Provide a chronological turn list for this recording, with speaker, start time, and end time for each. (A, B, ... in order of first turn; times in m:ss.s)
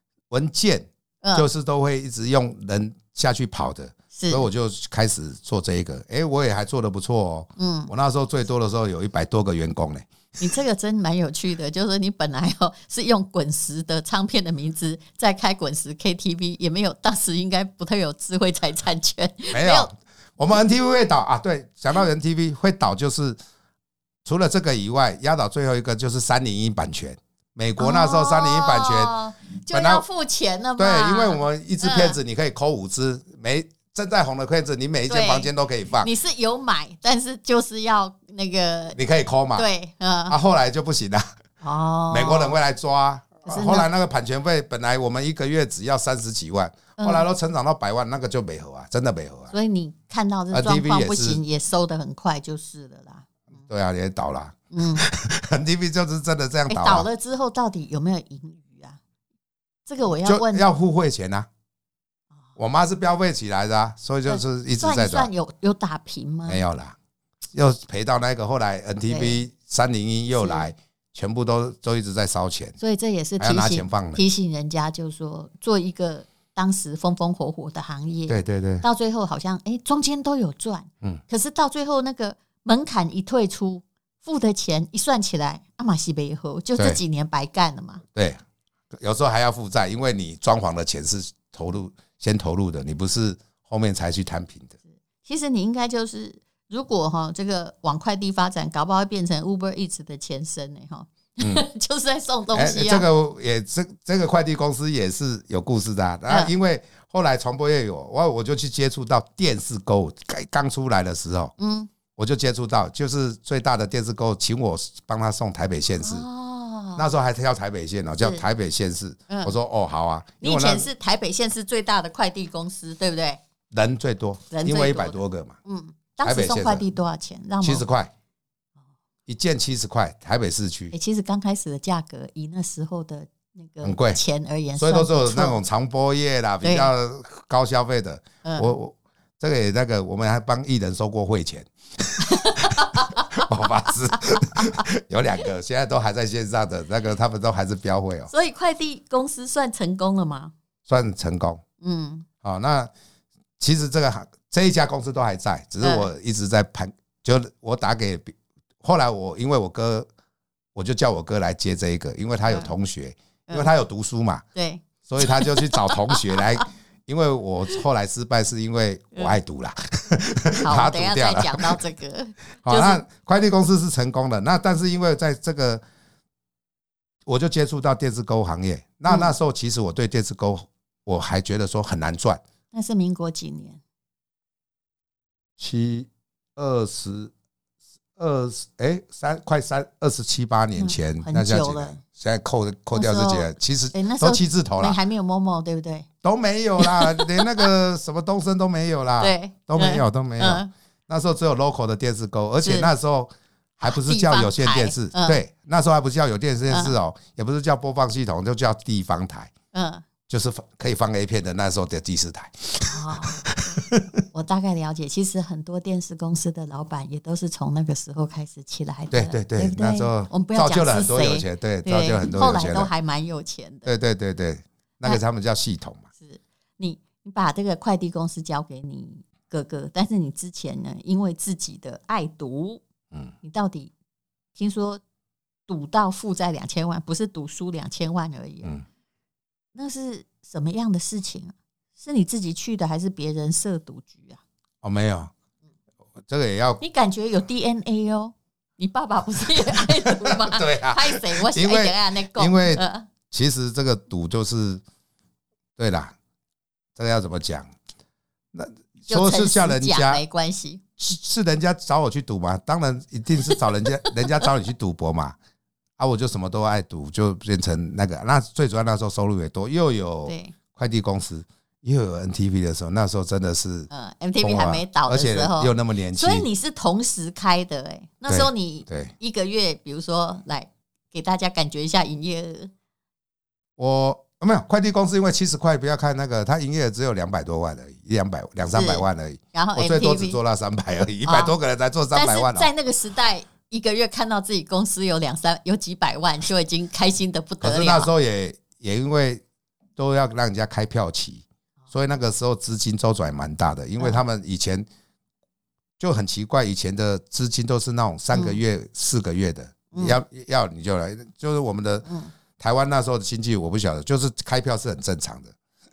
0:00.3-0:10.5 A
0:04.1-0:04.5 B
0:07.6-0:07.9 B
0:10.4-0:19.9 B
0:19.5-0:23.4 A
0:24.2-0:29.1 A
0:27.8-0:32.2 B
0:29.7-0:30.0 A
0:30.8-0:36.1 A
0:35.1-0:35.5 B
0:36.0-0:39.0 B
0:39.0-0:39.7 A
0:39.6-0:40.4 B
0:40.3-0:41.3 A
0:41.6-0:42.6 B
0:42.1-0:49.5 A
0:43.4-0:43.9 B
0:47.0-0:47.2 B
0:49.5-0:53.3 B
0:50.5-0:51.4 A
0:53.7-0:57.1 A
0:54.7-0:55.1 B
0:56.7-0:59.0 B
0:59.9-1:00.7 B
1:00.2-1:01.5 A
1:02.6-1:05.3 A
1:04.3-1:06.6 B
1:06.5-1:07.0 A
1:07.5-1:12.8 A
1:09.1-1:09.4 B
1:10.4-1:10.7 B
1:12.8-1:28.0 B
1:13.4-1:14.2 A
1:18.3-1:18.8 A
1:28.1-1:28.4 A
1:28.9-1:34.8 A
1:35.2-1:43.1 B
1:42.5-1:51.5 A
1:51.6-1:51.9 B
1:52.2-1:56.2 A
1:56.0-1:57.1 B
1:57.0-2:00.9 A
1:59.3-1:59.6 B
2:00.4-2:03.4 B
2:03.7-2:05.6 A
2:04.5-2:07.9 B
2:06.2-2:06.8 A
2:07.6-2:08.1 A
2:09.3-2:10.9 A
2:10.9-2:15.6 B
2:13.8-2:14.2 A
2:14.8-2:28.3 A
2:16.6-2:16.9 B
2:18.4-2:18.8 B
2:22.2-2:23.4 B
2:24.2-2:24.9 B
2:28.3-2:30.5 B
2:30.9-2:31.6 A
2:31.8-2:32.3 B
2:32.4-2:32.9 A
2:33.6-2:40.1 A
2:35.8-2:36.1 B
2:40.8-2:44.4 A
2:44.6-2:46.6 B
2:45.0-2:51.8 A
2:50.6-2:53.0 B
2:52.6-2:55.8 A
2:57.3-3:02.4 A
2:59.1-2:59.3 B
3:02.7-3:03.8 B
3:05.6-3:07.3 A
3:08.2-3:15.0 A
3:10.8-3:12.0 B
3:12.9-3:16.1 B
3:16.2-3:29.5 A
3:16.8-3:17.7 B
3:19.2-3:20.7 B
3:22.6-3:22.9 B
3:23.8-3:25.4 B
3:26.7-3:27.0 B
3:29.7-3:30.0 B
3:30.3-3:34.1 A
3:32.9-3:33.5 B
3:34.3-3:43.9 B
3:39.1-3:42.9 A
3:43.9-3:46.0 A
3:46.2-3:52.8 B
3:53.4-3:53.9 B
3:54.6-3:55.0 B
3:55.7-3:58.7 B
3:59.8-4:04.4 B
4:04.8-4:05.3 A
4:06.3-4:06.8 A
4:06.8-4:13.1 B
4:09.6-4:14.8 A
4:15.8-4:16.1 A
4:17.0-4:17.7 A
4:18.5-4:20.2 A
4:19.1-4:20.8 B
4:21.0-4:25.4 A
4:26.0-4:33.9 A
4:30.3-4:30.6 B
4:33.9-4:42.7 B
4:34.4-4:36.5 A
4:38.3-4:39.1 A
4:43.8-4:52.7 A
4:48.7-4:50.4 B
4:51.2-4:51.5 B
4:52.1-4:58.1 B
4:57.6-4:59.4 A
5:00.0-5:04.9 A
5:06.0-5:12.1 A
5:08.3-5:08.6 B
5:09.9-5:10.2 B
5:12.1-5:12.3 B
5:12.6-5:15.6 A